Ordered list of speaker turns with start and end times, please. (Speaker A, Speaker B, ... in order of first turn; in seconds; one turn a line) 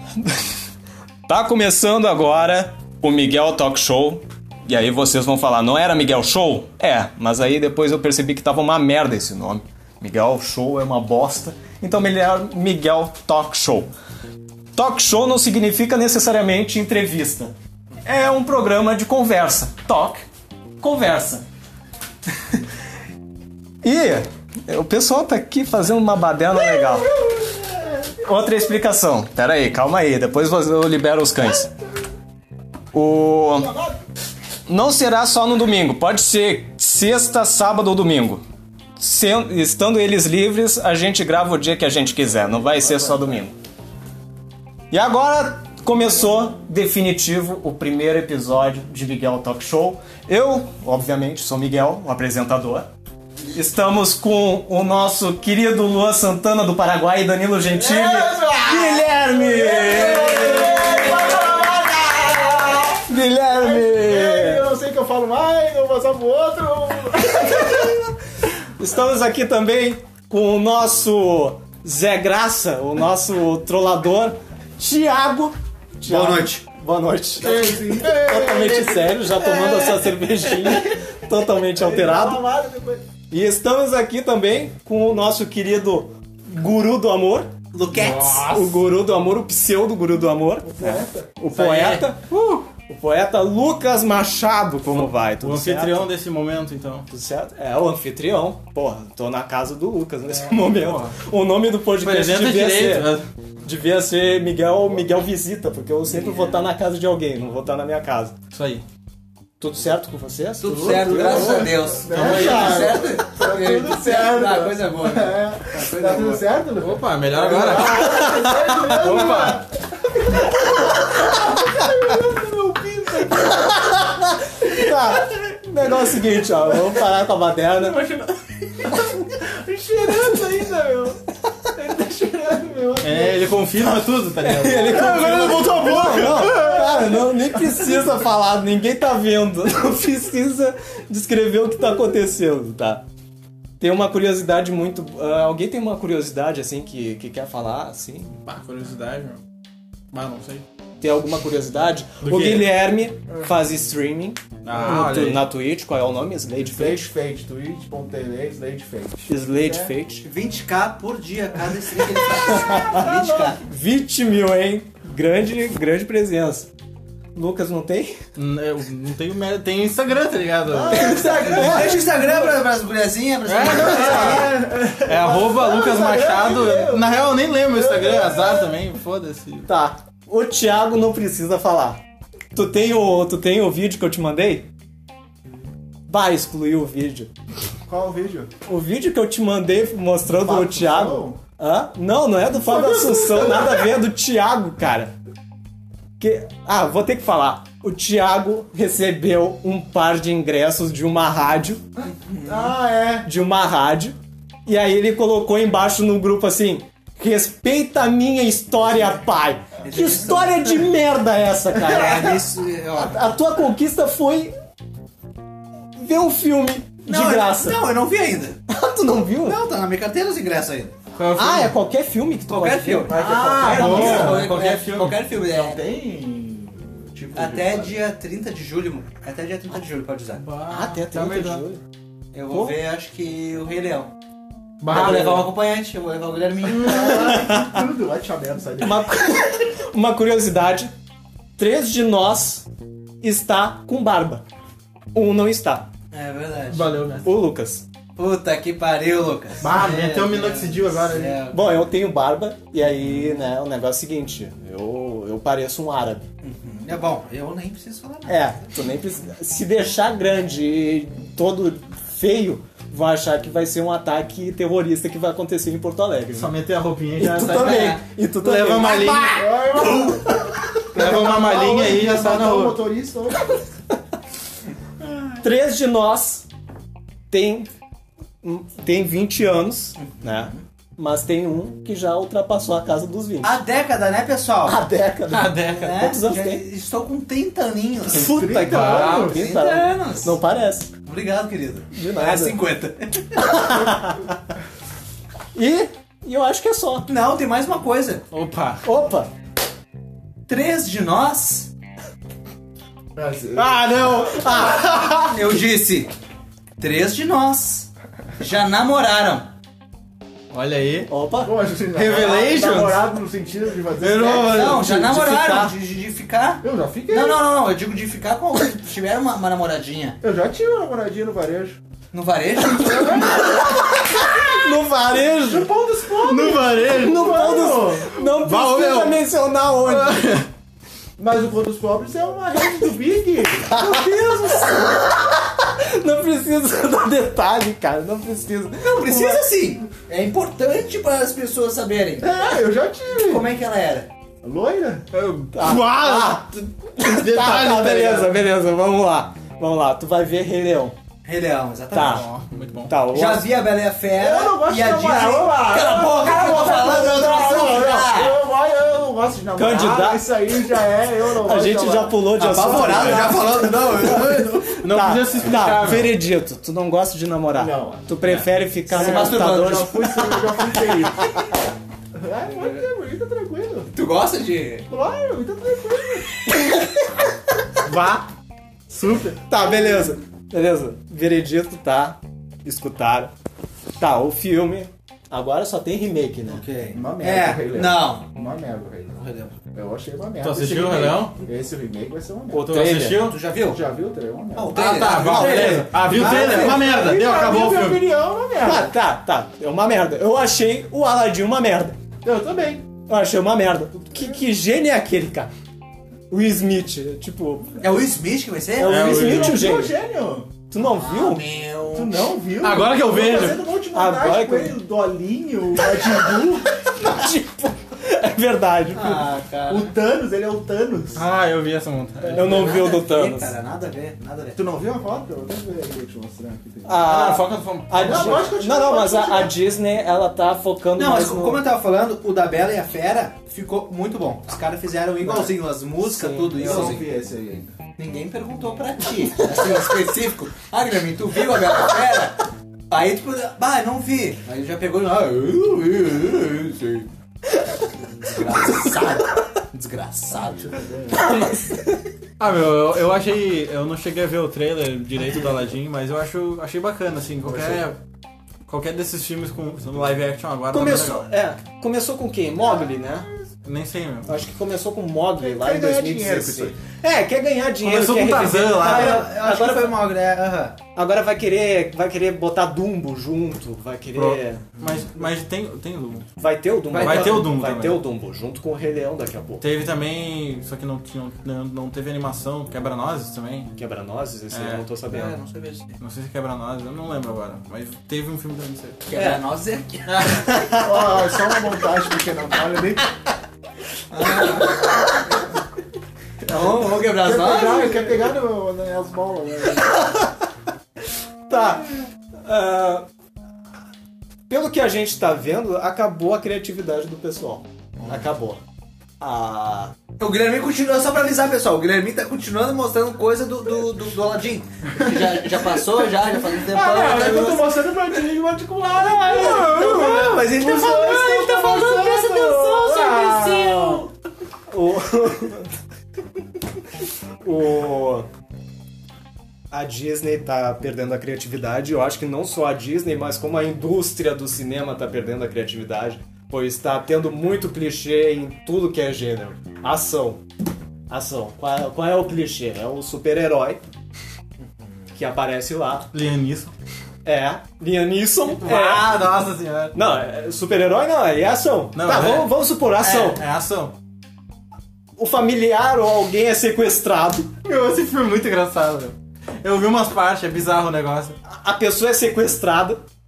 Speaker A: 1.3-13.9
Speaker A: 14.7-17.5
Speaker A: 18.0-20.2
Speaker A: 20.8-21.4
Speaker A: 23.8-27.1
Speaker B: 26.7-28.1
Speaker A: 28.2-31.7
Speaker A: 32.9-33.7
Speaker B: 33.5-34.0
Speaker A: 34.7-38.4
Speaker A: 39.0-43.5
Speaker B: 42.6-43.4
Speaker A: 44.9-52.9
Speaker A: 53.5-61.3
Speaker B: 57.7-68.0
Speaker A: 63.0-64.7
Speaker A: 67.5-67.8
Speaker A: 68.8-82.5
Speaker C: 76.1-76.6
Speaker B: 77.4-79.2
Speaker C: 79.7-79.9
Speaker B: 81.7-83.0
Speaker A: 83.3-87.5
Speaker C: 87.7-88.6
Speaker D: 87.9-88.8
Speaker A: 88.2-92.2
Speaker B: 90.6-91.3
Speaker D: 91.5-92.6
Speaker A: 92.8-96.1
Speaker D: 94.9-97.1
Speaker A: 97.1-108.3
Speaker D: 100.4-101.1
Speaker D: 101.9-103.3
Speaker C: 106.0-106.7
Speaker D: 108.5-108.8
Speaker A: 109.6-112.9
Speaker C: 110.6-116.4
Speaker B: 110.6-124.2
Speaker D: 112.1-112.8
Speaker D: 116.8-119.6
Speaker A: 119.1-119.5
Speaker A: 124.6-128.1
Speaker B: 127.8-131.2
Speaker B: 131.7-133.6
Speaker D: 133.0-136.4
Speaker A: 134.4-143.0
Speaker B: 134.8-138.0
Speaker A: 143.8-148.3
Speaker D: 148.4-149.4
Speaker D: 150.1-150.6
Speaker A: 151.0-157.0
Speaker D: 152.2-152.7
Speaker D: 154.6-155.5
Speaker B: 156.6-159.9
Speaker A: 159.3-160.2
Speaker C: 160.2-163.6
Speaker B: 162.2-163.6
Speaker A: 162.3-163.0
Speaker A: 163.6-166.7
Speaker A: 167.3-168.2
Speaker D: 168.3-171.4
Speaker B: 170.7-172.3
Speaker A: 170.9-172.2
Speaker C: 171.0-174.6
Speaker D: 173.4-174.5
Speaker B: 173.7-178.7
Speaker D: 175.0-179.7
Speaker A: 179.7-182.0
Speaker A: 182.5-184.7
Speaker A: 186.1-187.3
Speaker B: 187.8-188.5
Speaker A: 188.7-195.1
Speaker B: 190.3-191.4
Speaker B: 192.6-193.9
Speaker A: 196.2-201.8
Speaker C: 202.2-202.7
Speaker B: 202.4-203.3
Speaker A: 203.2-212.4
Speaker C: 209.8-210.8
Speaker C: 211.7-213.2
Speaker A: 212.9-214.5
Speaker A: 215.9-217.8
Speaker C: 217.1-218.6
Speaker A: 218.7-219.6
Speaker C: 219.4-220.9
Speaker D: 221.2-221.7
Speaker A: 221.3-224.4
Speaker C: 222.5-225.8
Speaker D: 223.1-225.2
Speaker B: 223.2-224.5
Speaker B: 225.4-228.0
Speaker C: 227.3-230.4
Speaker D: 230.3-231.6
Speaker A: 230.7-231.8
Speaker C: 232.3-234.1
Speaker A: 232.5-232.8
Speaker D: 234.8-235.5
Speaker C: 234.9-237.4
Speaker B: 236.7-239.2
Speaker A: 236.9-237.8
Speaker A: 238.8-240.9
Speaker A: 241.6-242.7
Speaker A: 243.2-244.4
Speaker A: 245.1-245.9
Speaker C: 246.1-247.2
Speaker D: 246.7-247.2
Speaker A: 247.2-247.8
Speaker C: 248.2-251.7
Speaker D: 249.6-251.4
Speaker A: 251.5-256.3
Speaker C: 256.4-258.7
Speaker A: 258.3-266.5
Speaker D: 266.3-267.9
Speaker A: 267.2-269.5
Speaker C: 267.2-268.0
Speaker D: 268.4-269.4
Speaker B: 268.9-270.3
Speaker B: 270.9-273.6
Speaker D: 270.9-272.8
Speaker A: 275.4-276.5
Speaker A: 277.3-277.7
Speaker A: 278.4-283.6
Speaker C: 283.4-284.8
Speaker A: 284.6-286.6
Speaker D: 285.3-285.9
Speaker C: 285.7-290.4
Speaker B: 288.1-289.4
Speaker A: 288.1-290.9
Speaker D: 288.6-289.3
Speaker C: 291.0-293.8
Speaker A: 291.9-292.6
Speaker A: 293.4-294.4
Speaker A: 295.5-297.1
Speaker C: 297.1-298.2
Speaker D: 298.3-298.8
Speaker A: 298.8-299.3
Speaker C: 300.5-301.7
Speaker B: 303.1-304.7
Speaker A: 303.5-305.6
Speaker C: 305.3-306.1
Speaker C: 306.8-309.5
Speaker D: 310.5-311.1
Speaker A: 311.1-311.5
Speaker B: 311.4-314.7
Speaker D: 311.9-313.1
Speaker D: 314.0-314.9
Speaker C: 314.3-320.2
Speaker A: 314.7-315.8
Speaker B: 316.6-317.5
Speaker B: 320.2-321.8
Speaker C: 322.1-324.0
Speaker B: 322.8-328.2
Speaker A: 323.1-325.7
Speaker D: 326.2-327.4
Speaker A: 326.8-330.4
Speaker D: 328.5-329.1
Speaker D: 329.8-330.4
Speaker B: 331.2-334.3
Speaker A: 333.7-339.4
Speaker C: 333.8-334.8
Speaker C: 338.8-342.4
Speaker B: 342.2-343.5
Speaker C: 343.1-344.1
Speaker B: 344.4-345.1
Speaker D: 345.1-348.3
Speaker A: 345.5-350.9
Speaker C: 351.2-352.3
Speaker A: 351.9-352.2
Speaker D: 351.9-353.0
Speaker A: 352.9-353.5
Speaker C: 353.1-358.4
Speaker B: 354.1-362.2
Speaker A: 356.8-357.5
Speaker A: 359.6-360.3
Speaker A: 361.4-370.6
Speaker C: 362.3-364.8
Speaker D: 364.7-366.2
Speaker B: 367.5-368.1
Speaker D: 368.2-368.5
Speaker C: 368.9-370.4
Speaker B: 368.9-371.6
Speaker B: 372.1-373.9
Speaker C: 372.4-372.8
Speaker C: 373.9-374.9
Speaker B: 374.9-376.4
Speaker A: 377.8-378.3
Speaker D: 378.9-379.4
Speaker A: 379.5-383.3
Speaker A: 384.0-386.6
Speaker C: 386.5-388.2
Speaker B: 386.9-392.7
Speaker C: 389.2-389.5
Speaker D: 390.4-391.3
Speaker A: 392.5-393.3
Speaker D: 392.6-393.4
Speaker C: 393.1-393.8
Speaker B: 393.6-394.8
Speaker C: 394.5-397.0
Speaker D: 394.7-398.0
Speaker A: 395.1-396.7
Speaker B: 396.1-398.9
Speaker A: 398.6-401.9
Speaker B: 402.2-402.9
Speaker A: 403.1-405.5
Speaker B: 404.1-404.4
Speaker A: 406.3-407.8
Speaker C: 407.8-409.1
Speaker A: 408.8-409.9
Speaker D: 408.8-409.7
Speaker B: 409.0-410.5
Speaker A: 410.7-411.4
Speaker C: 410.8-412.2
Speaker B: 411.9-416.7
Speaker D: 412.6-413.6
Speaker A: 413.9-414.8
Speaker A: 415.8-419.2
Speaker C: 418.9-419.9
Speaker B: 419.7-421.3
Speaker D: 421.1-422.7
Speaker A: 422.2-423.5
Speaker C: 422.3-424.6
Speaker B: 424.6-427.1
Speaker A: 426.8-431.6
Speaker D: 427.0-428.4
Speaker B: 427.9-429.5
Speaker C: 430.9-437.1
Speaker B: 435.2-435.5
Speaker A: 436.0-436.9
Speaker B: 436.6-437.7
Speaker C: 438.0-447.1
Speaker C: 448.0-450.7
Speaker B: 450.5-451.3
Speaker A: 451.2-452.0
Speaker D: 452.4-458.0
Speaker B: 457.4-457.9
Speaker D: 458.6-461.2
Speaker A: 460.7-463.3
Speaker D: 463.6-464.3
Speaker A: 464.3-470.0
Speaker B: 465.4-466.8
Speaker D: 467.8-469.2
Speaker C: 468.6-470.8
Speaker A: 470.9-474.6
Speaker D: 474.1-476.2
Speaker A: 476.4-479.6
Speaker C: 476.9-477.5
Speaker D: 476.9-478.0
Speaker D: 479.6-483.7
Speaker A: 483.8-485.4
Speaker D: 484.5-484.8
Speaker C: 485.1-486.0
Speaker D: 486.0-489.0
Speaker C: 489.1-490.3
Speaker A: 489.1-489.4
Speaker D: 490.1-490.7
Speaker A: 490.5-490.9
Speaker B: 490.8-493.0
Speaker C: 494.1-495.2
Speaker C: 496.5-498.2
Speaker B: 497.0-500.2
Speaker A: 501.5-501.9
Speaker A: 502.4-503.1
Speaker A: 504.5-508.6
Speaker B: 508.0-508.2
Speaker A: 509.2-509.9
Speaker C: 510.2-517.8
Speaker B: 515.0-515.5
Speaker B: 516.3-524.1
Speaker C: 519.2-522.7
Speaker D: 519.4-519.8
Speaker A: 519.5-524.1
Speaker A: 524.7-525.7
Speaker A: 527.4-528.3
Speaker A: 529.7-540.4
Speaker A: 541.1-543.8
Speaker A: 545.1-546.1
Speaker D: 546.1-546.7
Speaker A: 547.2-549.3
Speaker D: 548.4-549.9
Speaker A: 549.9-553.4
Speaker D: 551.9-553.9
Speaker A: 555.2-557.5
Speaker D: 557.6-561.4
Speaker A: 561.5-563.0